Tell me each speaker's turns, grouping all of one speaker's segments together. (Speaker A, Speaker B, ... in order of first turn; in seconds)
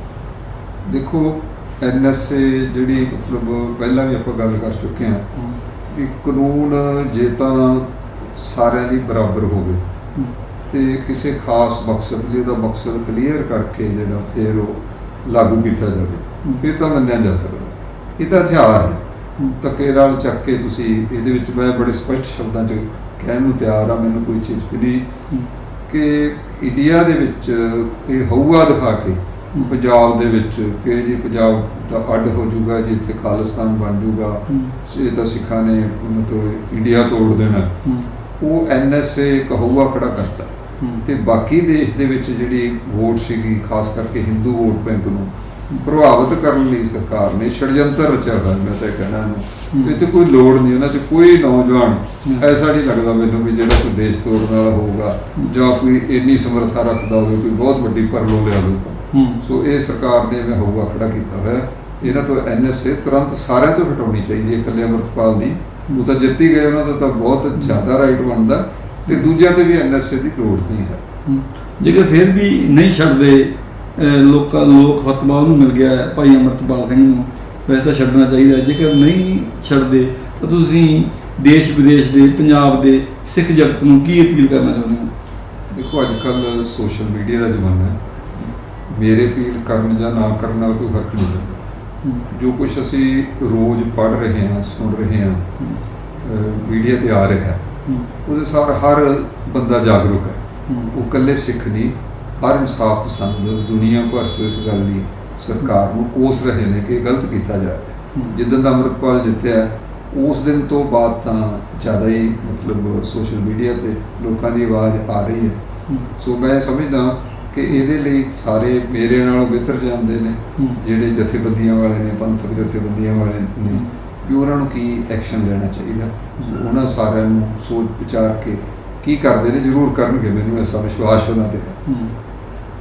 Speaker A: 0.8-5.2, 5.9-9.8, 10.7-19.0, 19.6-25.1, 25.9-37.7, 38.4-40.5, 41.0-71.0, 85.7-88.0, 88.9-91.6, 92.3-95.4, 96.2-97.6, 98.2-115.5, 116.2-131.8
Speaker B: 34.5-34.8, 37.8-38.1, 40.8-41.0, 49.7-50.0, 59.1-59.4, 71.2-85.1, 92.0-92.3, 97.8-98.1, 100.7-100.9, 115.9-116.1, 131.8-132.1